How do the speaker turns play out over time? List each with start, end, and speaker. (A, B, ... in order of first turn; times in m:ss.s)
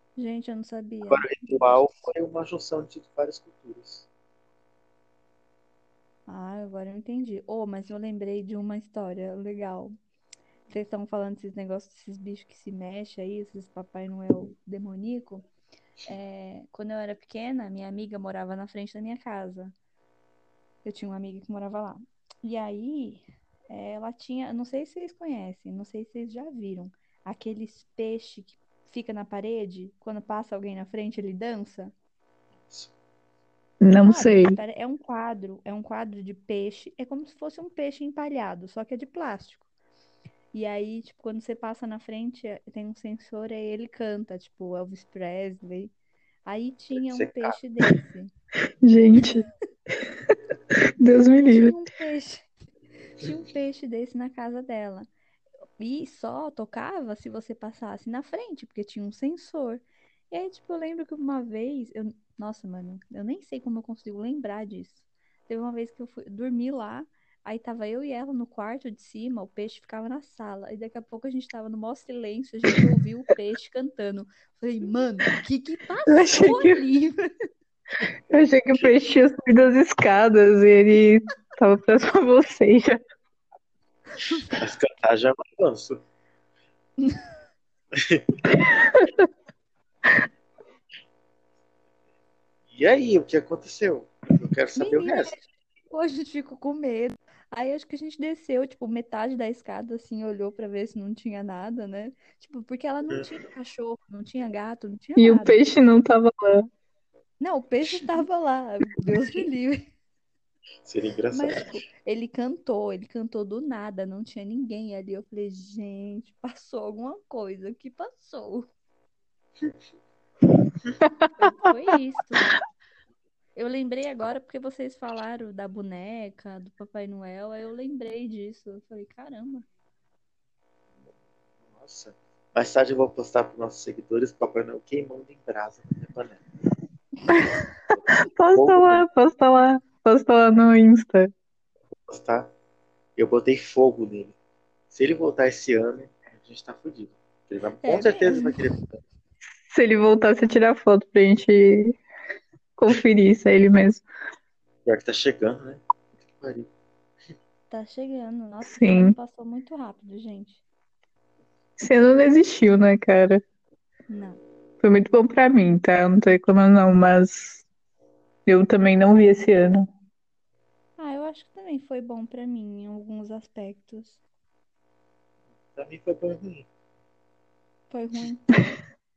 0:00.2-0:02.1 A
0:01.0-0:04.1 B
0:06.3-0:10.0 A
0:10.7-0:15.5 A
0:16.1-0:19.7 A
0:20.8-0:31.9 A
0:33.8-0:34.6 C
0:33.9-0:39.7 A
0:40.5-0:45.9 A
0:46.4-0:48.3 A
0:47.1-0:47.5 B
0:48.8-0:49.4 C
0:51.0-0:51.8 C
0:51.4-0:52.5 A
0:53.2-0:55.1 A
0:55.8-1:17.2 A
1:16.1-1:16.8 C
1:18.3-1:23.0 C
1:18.4-1:18.9 B
1:24.2-1:24.5 A
1:24.4-1:26.0 B
1:27.0-1:27.3 A
1:27.9-1:28.3 B
1:28.5-1:29.2 C
1:32.7-1:35.3 B
1:34.8-1:45.6 A
1:45.2-1:46.7 C
1:47.4-1:49.8 A
1:47.9-1:48.2 B
1:50.8-1:51.7 B
1:51.3-1:58.7 A
2:01.4-2:02.5 A
2:03.6-2:09.6 A
2:11.7-2:16.4 B
2:18.4-2:21.3 C
2:18.5-2:19.0 B
2:22.1-2:22.5 B
2:23.2-2:24.3 B
2:24.9-2:28.9 B
2:27.8-2:28.7 A
2:29.7-2:32.0 C
2:32.8-2:34.0 C
2:34.8-2:36.7 B
2:37.7-2:40.6 A
2:38.7-2:39.2 C
2:41.8-2:43.4 C
2:44.1-2:44.4 A
2:44.8-2:47.6 C
2:48.4-2:49.9 C
2:51.0-2:54.2 A
2:55.7-2:56.7 B
2:57.9-2:58.5 A